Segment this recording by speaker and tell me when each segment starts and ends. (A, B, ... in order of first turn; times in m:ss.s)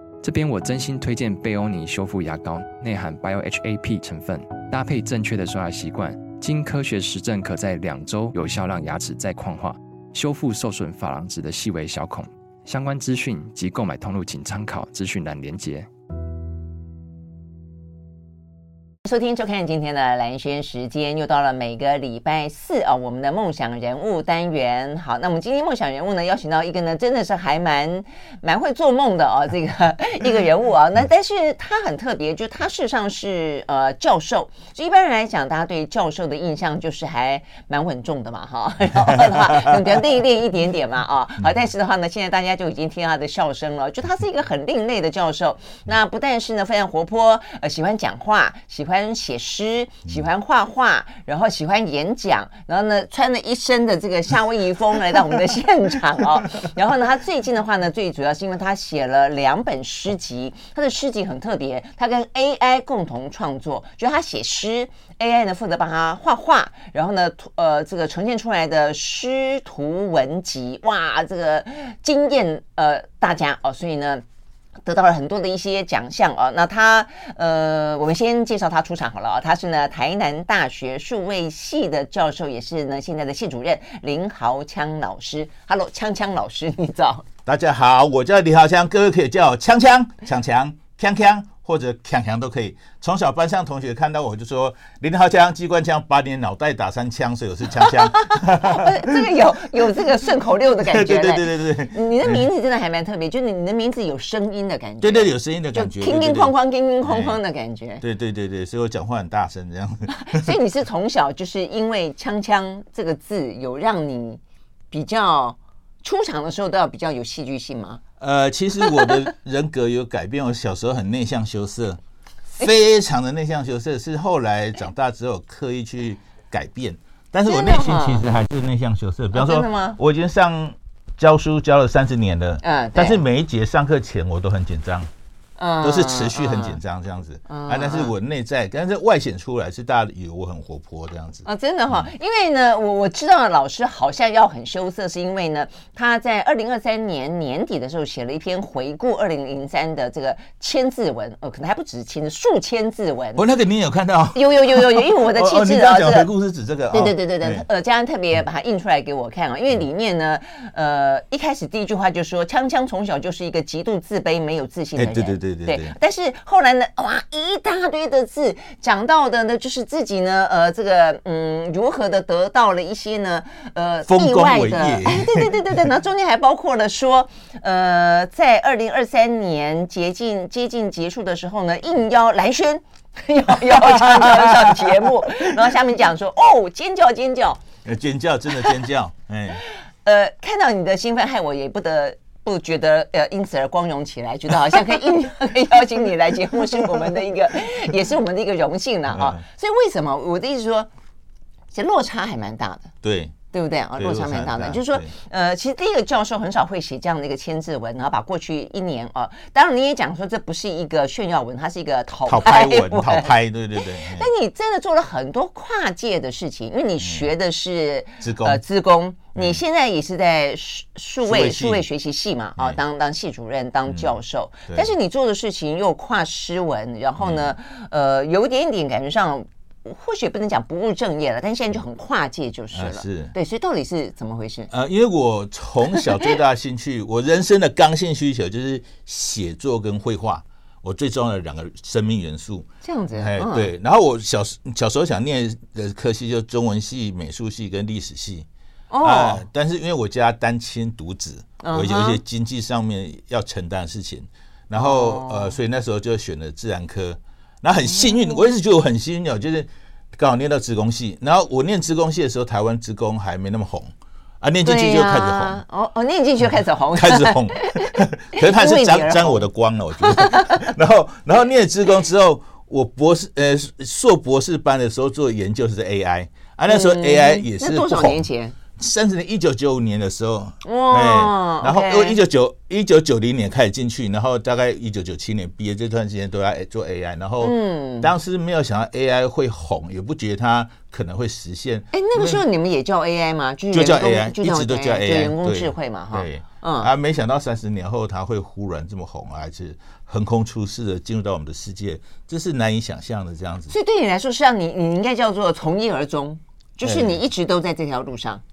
0:00.2-0:15.9 A
0:19.0-1:14.2 B
0:39.0-0:39.8 C
1:14.9-1:27.3 B
1:27.5-1:39.2 C
1:37.8-1:48.0 B
1:40.8-1:42.5 C
1:45.0-1:47.4 C
1:48.0-1:50.5 C
1:50.2-1:58.0 B
1:58.2-2:02.0 C
2:02.5-2:15.1 C
2:07.4-2:08.3 B
2:09.3-2:10.0 B
2:12.6-2:13.2 B
2:15.6-2:16.8 B
2:15.8-2:22.1 C
2:17.5-2:18.1 B
2:21.4-2:33.4 B
2:33.4-2:37.6 C
2:34.3-2:36.3 B
2:36.9-3:07.6 B
2:45.0-2:46.0 C
2:54.1-2:55.5 C
3:03.5-3:05.6 C
3:07.8-3:09.6 C
3:10.0-3:20.9 B
3:19.1-3:19.4 C
3:21.7-3:22.9 B
3:23.0-3:23.4 C
3:23.5-3:33.3 B
3:24.0-3:25.1 C
3:32.3-3:34.3 C
3:34.1-3:54.7 B
3:37.0-3:37.3 C
3:38.2-3:38.6 C
3:39.4-3:39.6 C
3:41.2-3:41.8 C
3:43.9-3:44.1 C
3:47.2-3:47.5 C
3:52.7-3:53.3 C
3:54.7-4:08.5 C
4:02.8-4:03.7 B
4:08.9-4:09.4 B
4:09.0-4:25.6 C
4:11.6-4:12.2 B
4:14.7-4:15.6 B
4:17.9-4:18.4 B
4:24.6-4:29.4 B
4:26.9-4:38.2 C
4:30.0-4:30.6 B
4:36.7-4:38.6 B
4:38.8-4:52.4 C
4:40.6-4:42.2 B
4:47.4-4:48.1 B
4:51.9-4:56.9 B
4:53.7-5:03.7 C
5:03.7-5:08.4 B
5:06.8-5:07.2 C